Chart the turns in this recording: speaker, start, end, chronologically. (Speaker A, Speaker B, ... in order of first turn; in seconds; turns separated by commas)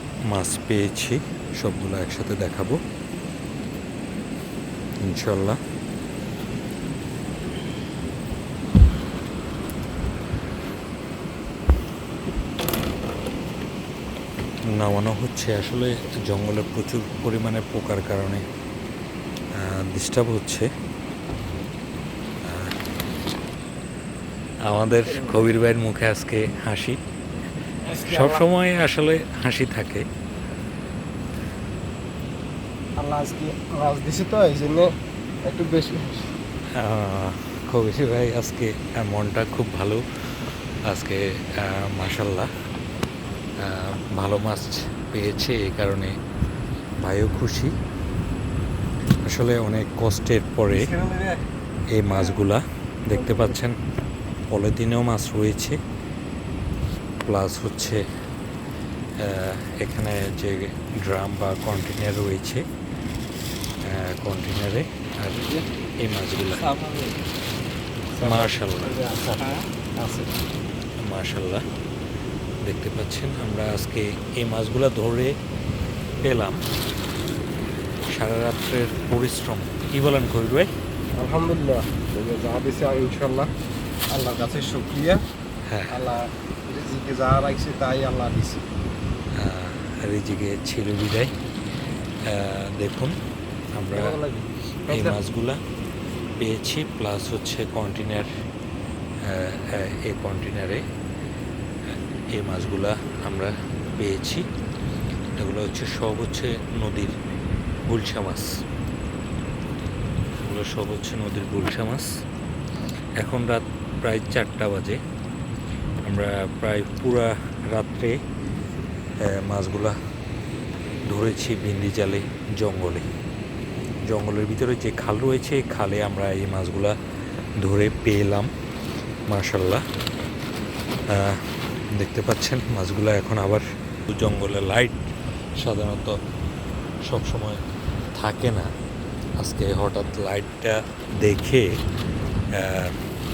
Speaker A: 0.3-2.8, Speaker A: 5.1-5.6, Speaker A: 14.7-18.4, Speaker A: 19.5-20.7, Speaker A: 22.4-22.8, Speaker A: 24.7-27.0, Speaker B: 27.9-28.4, Speaker A: 28.0-30.1, Speaker B: 33.0-34.9, Speaker B: 35.5-36.3, Speaker A: 36.8-40.0, Speaker A: 40.9-42.5, Speaker A: 43.6-46.1, Speaker A: 47.0-47.7, Speaker A: 49.3-50.9, Speaker B: 50.8-51.5, Speaker A: 51.9-53.8, Speaker A: 54.5-55.8, Speaker A: 57.2-58.0, Speaker A: 59.2-62.6, Speaker A: 63.9-65.5, Speaker A: 66.0-66.7, Speaker B: 66.6-67.2, Speaker B: 68.2-70.3, Speaker A: 68.2-69.0, Speaker A: 71.0-71.6, Speaker A: 72.6-75.4, Speaker A: 76.2-76.6, Speaker A: 78.1-80.7, Speaker B: 81.2-83.5, Speaker B: 84.1-85.2, Speaker A: 85.7-86.0, Speaker B: 85.9-88.6, Speaker A: 89.4-91.3, Speaker A: 92.3-93.2, Speaker A: 93.8-94.2, Speaker B: 94.0-95.2, Speaker A: 94.9-95.6, Speaker A: 96.4-98.3, Speaker A: 99.2-100.8, Speaker A: 102.3-104.5, Speaker A: 105.4-107.2, Speaker A: 107.9-108.5, Speaker A: 110.4-112.1, Speaker A: 113.2-115.0, Speaker A: 116.1-118.2, Speaker A: 119.2-120.0, Speaker A: 121.1-123.1, Speaker A: 124.1-127.0, Speaker A: 127.6-128.5, Speaker A: 129.3-129.8, Speaker A: 131.1-135.0, Speaker A: 135.6-136.2, Speaker A: 137.1-137.6, Speaker A: 138.2-138.7, Speaker A: 139.4-141.7, Speaker A: 142.6-143.0